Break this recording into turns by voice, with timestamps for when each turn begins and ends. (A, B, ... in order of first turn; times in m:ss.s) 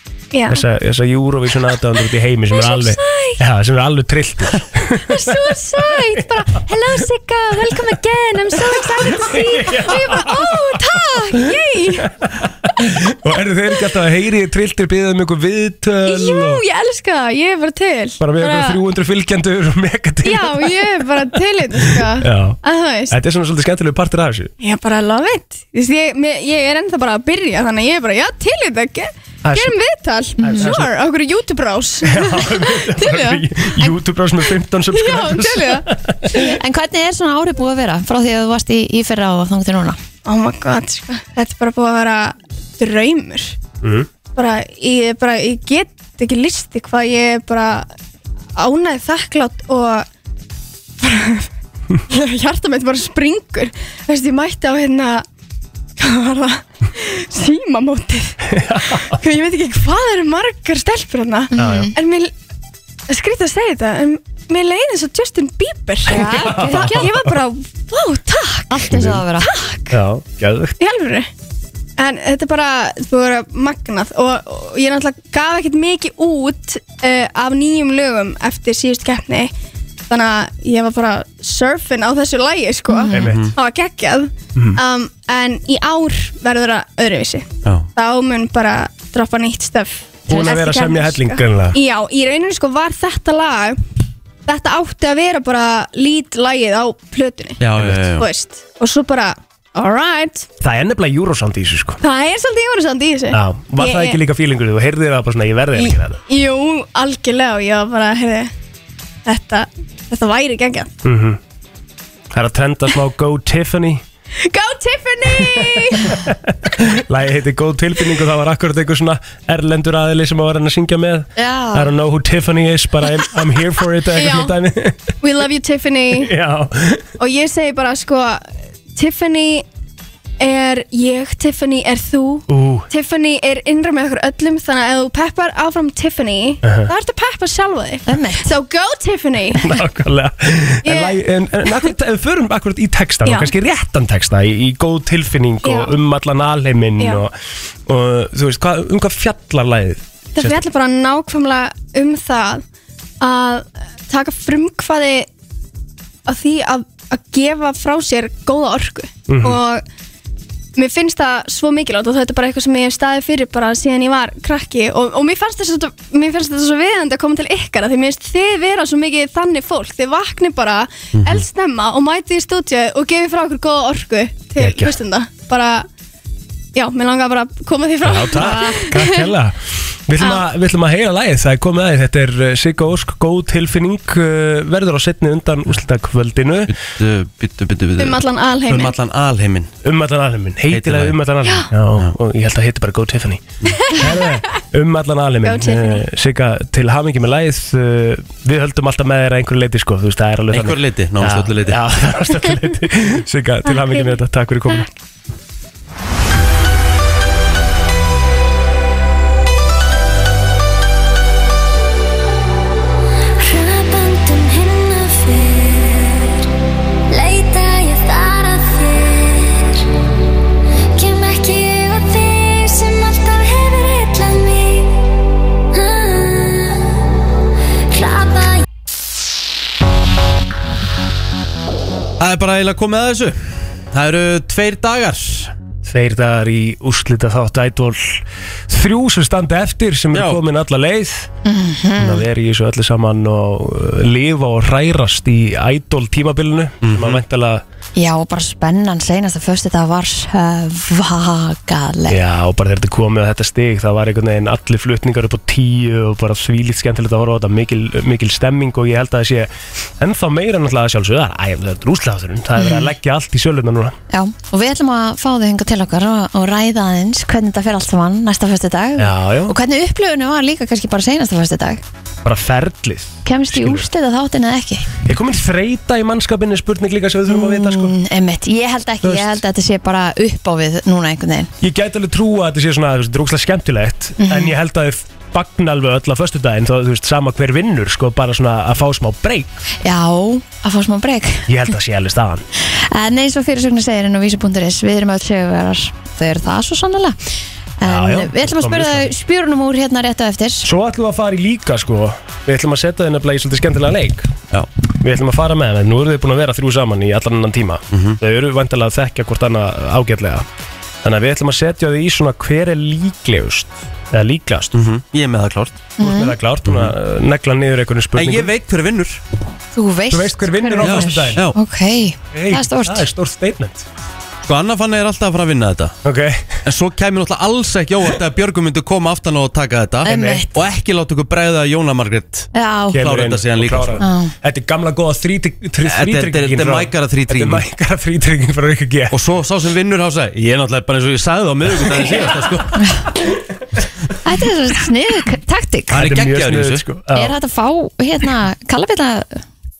0:00.3-0:00.6 A
0:00.5-0:06.2 B
0:02.5-0:03.4 A
0:05.1-0:12.1 A
0:08.6-0:10.6 B
0:12.2-0:16.6 B
0:16.1-0:18.8 A
0:18.2-0:21.0 B
0:20.2-0:23.2 A
0:22.2-0:24.5 B
0:24.6-0:33.9 A
0:29.4-0:29.7 B
0:30.4-0:30.9 B
0:30.4-0:30.7 C
0:32.1-0:36.5 B
0:34.9-0:35.8 A
0:36.3-0:40.0 C
0:40.2-0:43.6 A
0:43.8-0:44.1 B
0:44.3-0:47.9 A
0:48.6-0:50.1 A
0:51.0-0:51.5 A
0:52.1-0:55.2 A
0:56.0-1:02.3 A
0:58.5-0:59.1 B
1:01.5-1:01.9 C
1:01.6-1:01.9 B
1:03.1-1:10.0 A
1:06.0-1:07.1 C
1:06.1-1:07.3 B
1:08.7-1:09.5 C
1:08.8-1:09.2 B
1:09.9-1:10.8 B
1:10.8-1:11.3 A
1:12.0-1:19.5 A
1:20.1-1:33.8 A
1:22.9-1:23.3 C
1:23.1-1:23.5 B
1:23.1-1:23.5 D
1:30.3-1:31.8 B
1:34.4-1:37.6 A
1:37.6-1:38.2 D
1:37.8-1:38.1 B
1:38.2-1:40.5 A
1:40.6-1:42.0 B
1:42.0-1:44.2 A
1:43.3-1:46.2 B
1:46.3-1:48.5 A
1:49.2-1:50.9 A
1:51.0-1:51.4 B
1:52.3-1:54.0 B
1:54.4-1:56.2 A
1:55.5-2:05.1 B
2:01.4-2:01.9 C
2:04.1-2:04.5 A
2:05.2-2:06.3 A
2:06.1-2:07.0 B
2:07.2-2:09.6 A
2:10.4-2:19.8 A
2:12.5-2:12.9 B
2:16.6-2:16.9 B
2:18.0-2:18.5 C
2:19.6-2:30.6 B
2:20.8-2:21.2 A
2:23.2-2:23.5 A
2:25.6-2:26.0 A
2:30.3-2:32.6 A
2:33.2-2:35.3 A
2:36.3-2:39.8 A
2:39.3-2:39.6 B
2:40.8-2:55.9 A
2:51.1-2:51.4 D
2:54.6-2:54.9 B
2:56.7-2:59.3 A
2:58.0-3:06.7 B
3:06.7-3:09.7 D
3:08.0-3:08.9 A
3:09.8-3:24.9 B
3:10.7-3:11.2 D
3:15.4-3:16.0 A
3:20.5-3:21.8 D
3:33.4-3:36.4 E
3:37.1-3:39.9 E
3:40.9-3:44.9 E
3:45.7-3:47.0 E
3:47.9-3:48.6 E
3:52.2-3:55.5 D
3:55.8-4:01.3 B
4:00.1-4:00.4 D
4:01.4-4:02.2 C
4:02.0-4:07.6 B
4:06.8-4:07.2 D
4:08.0-4:12.2 C
4:12.1-4:24.0 B
4:22.6-4:22.9 C
4:24.1-4:31.8 C
4:29.0-4:29.6 B
4:32.2-4:33.9 B
4:33.2-4:34.9 C
4:35.0-4:38.0 B
4:37.3-4:41.5 C
4:39.0-4:39.4 B
4:41.6-4:49.6 B
4:44.2-4:44.6 C
4:49.8-4:51.5 C
4:51.5-4:52.4 B
4:52.6-5:00.7 C
4:57.8-4:59.1 B
5:00.6-5:04.3 B
5:05.0-5:10.4 B
5:07.9-5:08.2 D
5:11.0-5:14.8 B
5:14.7-5:15.8 D
5:16.0-5:16.4 C
5:16.0-5:18.5 B
5:16.6-5:16.9 D
5:18.1-5:19.2 D
5:19.7-5:23.0 C
5:20.1-5:21.4 B
5:20.8-5:21.6 D
5:22.3-5:23.8 B
5:24.4-5:26.0 D
5:26.0-5:26.5 B
5:26.6-5:34.0 D
5:30.0-5:30.6 C
5:30.1-5:30.4 B
5:32.5-5:33.0 C
5:32.9-5:39.2 B
5:34.0-5:34.3 C
5:35.8-5:37.6 D
5:39.1-5:42.8 D
5:42.0-5:42.3 B
5:42.8-5:43.0 C
5:44.2-5:46.0 C
5:45.9-5:46.8 D
5:45.9-5:47.3 B
5:47.1-5:49.4 C